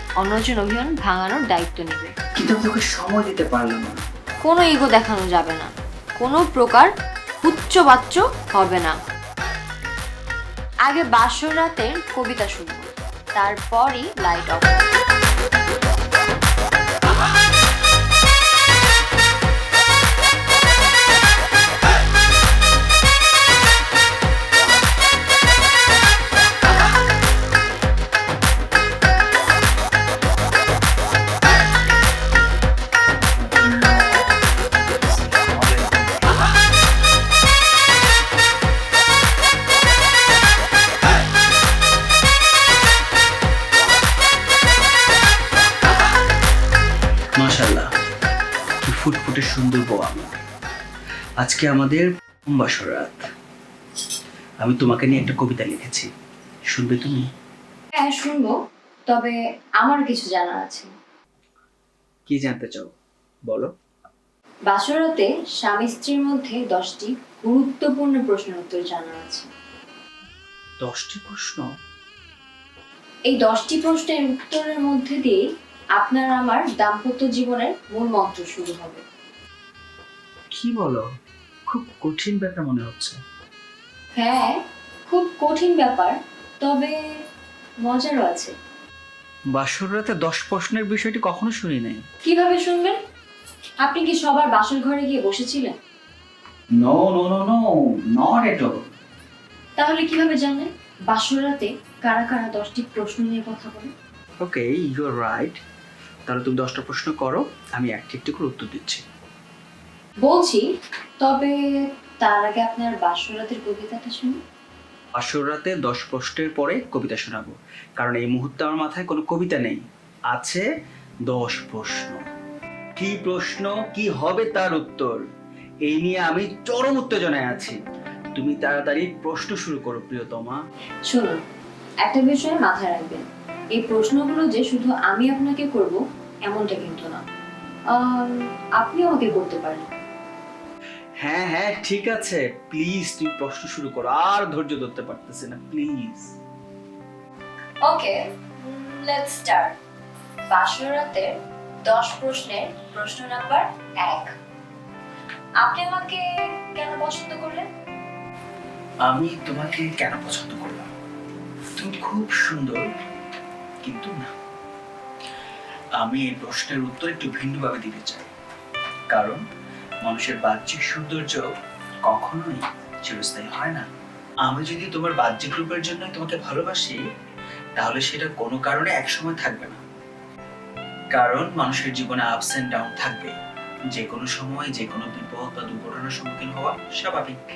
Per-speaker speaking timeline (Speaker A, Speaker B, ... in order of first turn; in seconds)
Speaker A: 0.2-2.1, 4.5-6.9, 7.4-9.0, 10.9-14.9, 58.0-58.6, 59.1-60.9, 64.7-69.5, 73.3-75.4, 76.0-79.0, 84.2-86.9, 87.8-88.5, 92.2-93.0, 93.8-95.8, 99.8-103.9, 110.2-110.7, 111.2-111.5, 112.2-114.4, 131.1-131.4, 132.0-137.2, 137.9-139.9, 147.8-149.8, 150.5-151.3, 151.9-154.3, 155.6-157.7
Speaker B: 2.4-4.0, 33.2-36.5, 47.4-47.9, 48.8-50.4, 51.4-53.2, 54.6-56.1, 56.7-57.3, 62.3-62.9, 70.8-71.7, 80.5-81.0, 81.7-83.2, 89.5-92.0, 96.8-97.6, 98.2-98.9, 104.4-105.6, 106.3-109.0, 115.2-120.7, 121.3-122.3, 123.0-125.2, 125.8-127.8, 128.3-130.6, 141.2-146.4, 159.1-160.9, 161.8-162.8, 163.8-164.3, 166.0-168.3, 169.1-169.4, 170.0-171.5, 172.1-173.9, 174.5-177.0, 177.8-179.8, 181.1-183.3, 183.9-187.4